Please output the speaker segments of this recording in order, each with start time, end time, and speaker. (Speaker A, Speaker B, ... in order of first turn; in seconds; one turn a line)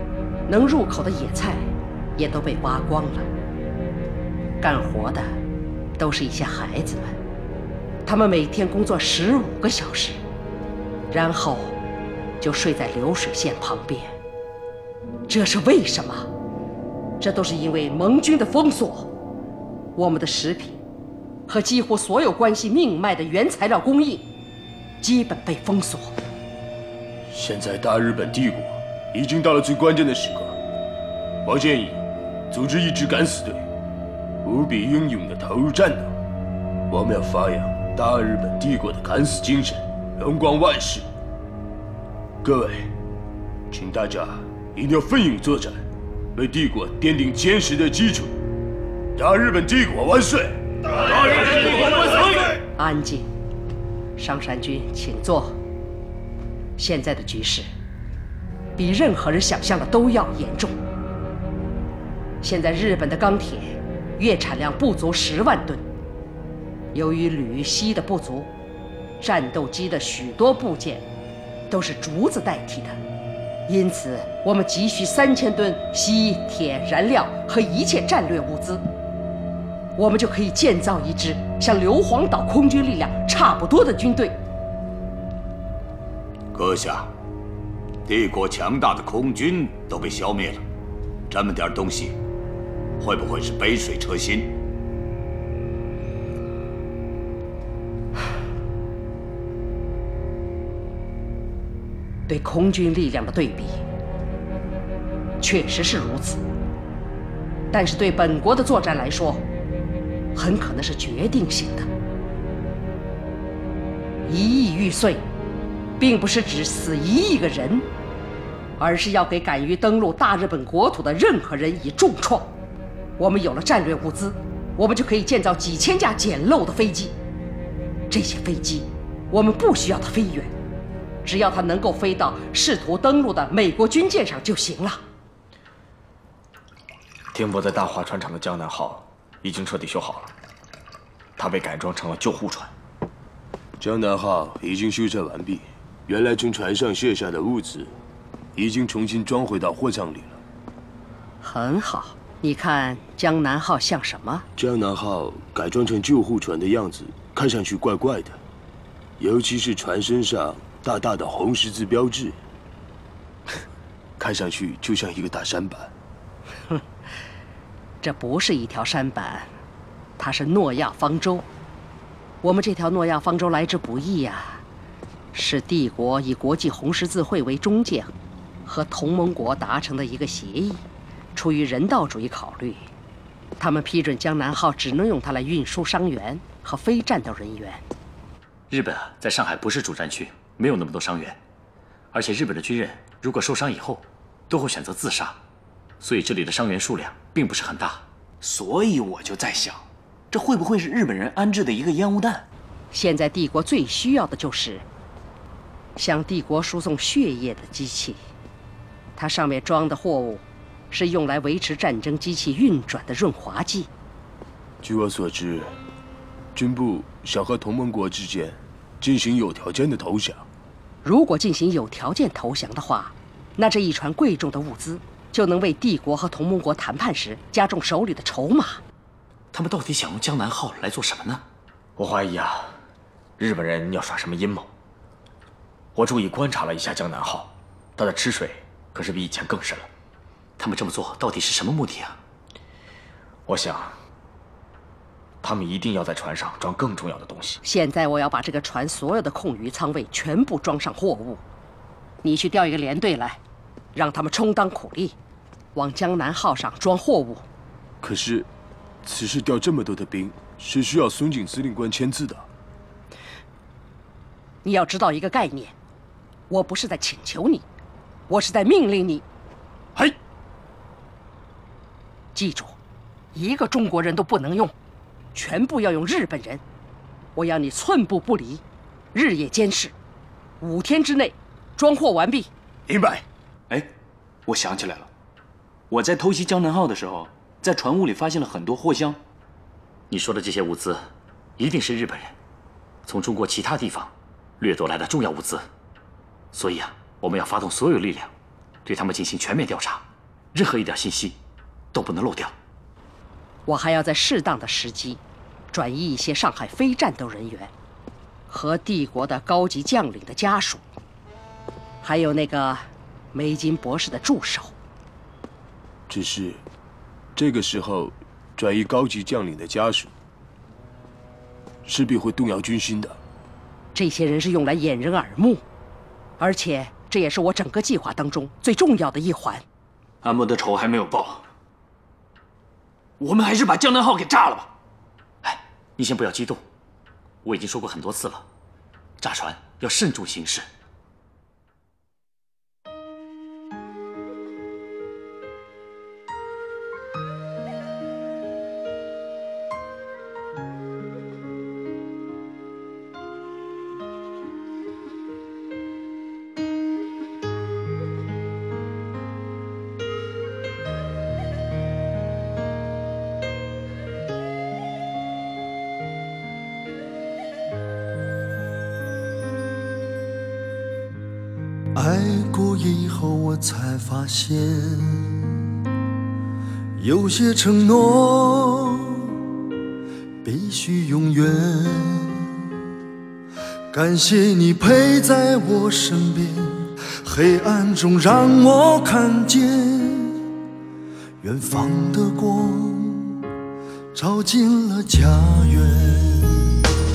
Speaker A: 0.5-3.3
Speaker A: 4.6-5.3
Speaker A: 6.0-7.2
Speaker A: 8.1-10.2
Speaker A: 11.1-11.8
Speaker A: 12.4-14.2
Speaker A: 15.3-16.3
Speaker A: 17.2-19.1
Speaker A: 19.9-20.8
Speaker A: 21.5-24.3
Speaker A: 25.0-26.1
Speaker B: 27.3-30.6
Speaker B: 31.4-33.6
Speaker B: 34.4-36.1
Speaker B: 36.9-41.0
Speaker B: 42.4-42.9
Speaker B: 43.7-45.8
Speaker B: 46.3-48.3
Speaker B: 49.1-50.6
Speaker C: 51.4-51.7
Speaker A: 52.8-53.3
Speaker A: 54.2-55.6
Speaker A: 56.8-57.7
Speaker A: 58.8-60.8
Speaker A: 62.4-65.8
Speaker A: 66.9-68.5
Speaker A: 69.2-71.0
Speaker A: 71.7-73.0
Speaker A: 73.7-78.8
Speaker A: 80.0-84.3
Speaker C: 86.5-87.1
Speaker C: 88.0-90.6
Speaker C: 91.3-92.1
Speaker C: 93.0-94.5
Speaker A: 102.3-103.8
Speaker A: 105.4-106.4
Speaker A: 107.7-109.4
Speaker A: 110.3-111.9
Speaker A: 114.2-115.2
Speaker A: 116.0-117.9
Speaker A: 118.8-122.5
Speaker A: 123.2-127.1
Speaker A: 128.1-130.5
Speaker A: 131.2-135.0
Speaker D: 137.3-140.3
Speaker D: 141.4-142.7
Speaker B: 143.8-147.9
Speaker B: 148.5-150.4
Speaker A: 151.4-154.4
Speaker B: 154.6-158.4
Speaker B: 159.2-162.4
Speaker B: 164.2-165.9
Speaker A: 168.0-169.5
Speaker A: 170.2-171.4
Speaker A: 172.4-174.6
Speaker A: 175.3-178.1
Speaker A: 178.6-180.8
Speaker A: 181.3-182.9
Speaker A: 183.6-187.8
Speaker E: 188.7-191.4
Speaker E: 192.1-195.4
Speaker E: 196.0-198.0
Speaker F: 198.4-202.4
Speaker A: 202.9-204.8
Speaker A: 206.0-208.2
Speaker A: 209.2-213.9
Speaker B: 214.8-215.7
Speaker B: 216.5-220.4
Speaker A: 221.0-228.8
Speaker E: 229.5-231.4
Speaker D: 231.9-232.8
Speaker D: 233.4-234.7
Speaker D: 235.9-239.9
Speaker E: 240.6-242.2
Speaker D: 243.4-244.0
Speaker D: 245.4-247.6
Speaker A: 247.6-251.4
Speaker A: 252.2-253.4
Speaker A: 253.9-255.2
Speaker A: 255.7-257.4
Speaker B: 258.0-258.5
Speaker B: 259.0-262.5
Speaker A: 264.6-265.7
Speaker A: 266.5-267.6
Speaker A: 268.3-269.2
Speaker A: 272.3-272.8
Speaker A: 273.3-274.7
Speaker A: 275.3-276.6
Speaker A: 277.4-278.6
Speaker A: 279.1-279.9
Speaker A: 280.6-282.5
Speaker F: 282.9-283.2
Speaker F: 284.5-285.1
Speaker F: 285.9-289.2
Speaker E: 290.1-292.3
Speaker E: 293.1-295.7
Speaker E: 296.5-298.3
Speaker E: 298.8-301.4
Speaker E: 301.9-302.5
Speaker A: 303.7-305.2
Speaker A: 305.7-307.7
Speaker A: 308.5-310.8
Speaker A: 312.0-314.7
Speaker B: 316.1-316.6
Speaker B: 317.4-320.1
Speaker B: 321.8-323.2
Speaker A: 323.9-325.6
Speaker A: 326.4-329.6
Speaker F: 330.2-331.4
Speaker F: 333.2-334.7
Speaker E: 335.4-336.6
Speaker E: 337.4-338.4
Speaker E: 339.2-340.6
Speaker G: 371.9-375.5
Speaker G: 377.0-379.3
Speaker G: 380.4-382.5
Speaker G: 383.9-390.4
Speaker G: 391.4-393.4
Speaker G: 394.1-396.7